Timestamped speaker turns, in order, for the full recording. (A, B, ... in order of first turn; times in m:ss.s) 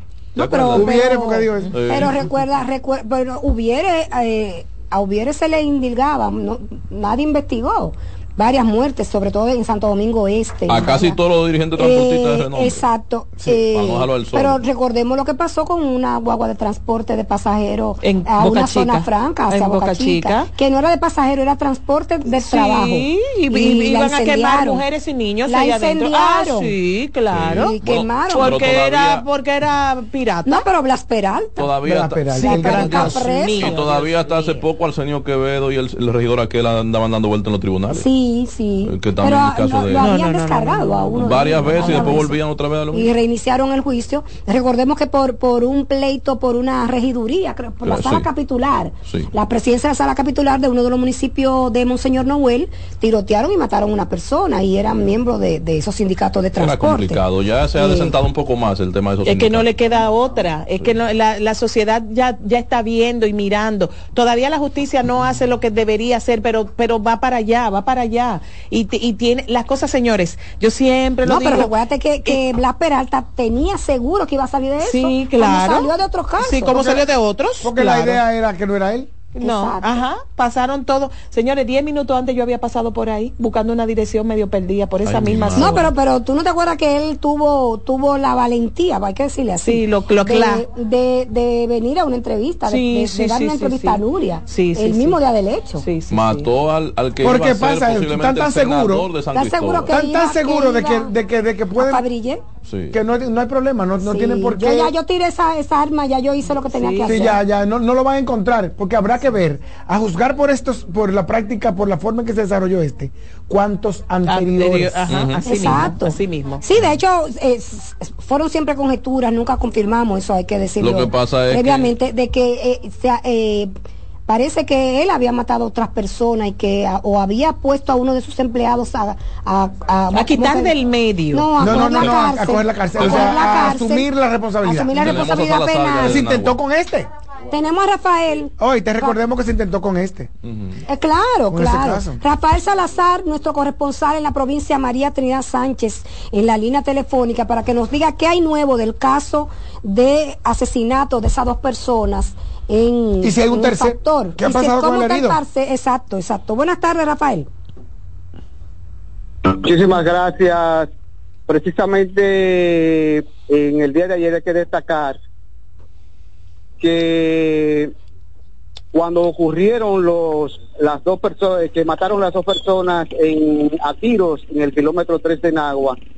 0:00.4-0:00.9 A
0:00.4-0:11.2 B
0:00.7-0:01.8 C
0:01.7-0:02.2 A
0:10.7-0:12.8 A
0:11.8-0:24.8 B
0:13.5-0:14.6 A
0:18.0-0:20.5 D
0:22.3-0:27.8 D
0:25.4-0:26.7 B
0:27.3-0:29.2 A
0:27.5-0:28.7 B
0:28.3-0:30.7 D
0:30.5-0:31.7 B
0:31.6-0:38.1 A
0:31.8-0:33.2 C
0:32.4-0:34.6 D
0:32.4-0:33.8 B
0:37.9-0:42.4 B
0:38.8-0:40.2 A
0:40.0-0:42.3 D
0:41.2-0:43.1 A
0:42.9-0:57.2 B
0:47.8-0:48.3 A
0:56.6-0:59.7 A
0:57.8-0:58.1 B
0:59.2-1:11.7 D
1:11.2-1:16.8 B
1:14.8-1:18.2 D
1:16.7-1:17.1 C
1:17.6-1:19.2 C
1:19.3-1:25.9 D
1:19.4-1:19.9 B
1:25.0-1:25.9 A
1:25.6-1:35.9 B
1:29.6-1:30.6 D
1:32.7-1:35.2 D
1:35.8-1:36.5 D
1:36.1-1:39.9 A
1:37.2-1:39.1 C
1:39.3-1:41.1 B
1:39.9-1:42.0 C
1:41.8-1:42.4 B
1:42.6-1:43.0 A
1:42.9-1:44.9 C
1:44.0-1:47.4 B
1:46.6-1:47.4 D
1:47.1-1:55.1 C
1:54.2-1:56.6 D
1:55.1-1:55.4 A
1:55.5-2:03.7 B
2:00.8-2:01.9 A
2:04.3-2:10.8 B
2:10.1-2:12.1 D
2:11.3-2:14.1 B
2:11.6-2:15.2 C
2:14.6-2:16.2 B
2:15.0-2:16.6 A
2:16.0-2:17.1 C
2:17.5-2:19.2 B
2:18.6-2:20.3 C
2:20.4-2:20.8 A
2:20.9-2:37.5 B
2:21.5-2:22.2 C
2:33.2-2:35.4 C
2:39.4-2:40.9 E
2:41.5-2:45.2 E
2:46.8-2:47.9 E
2:48.9-2:56.0 E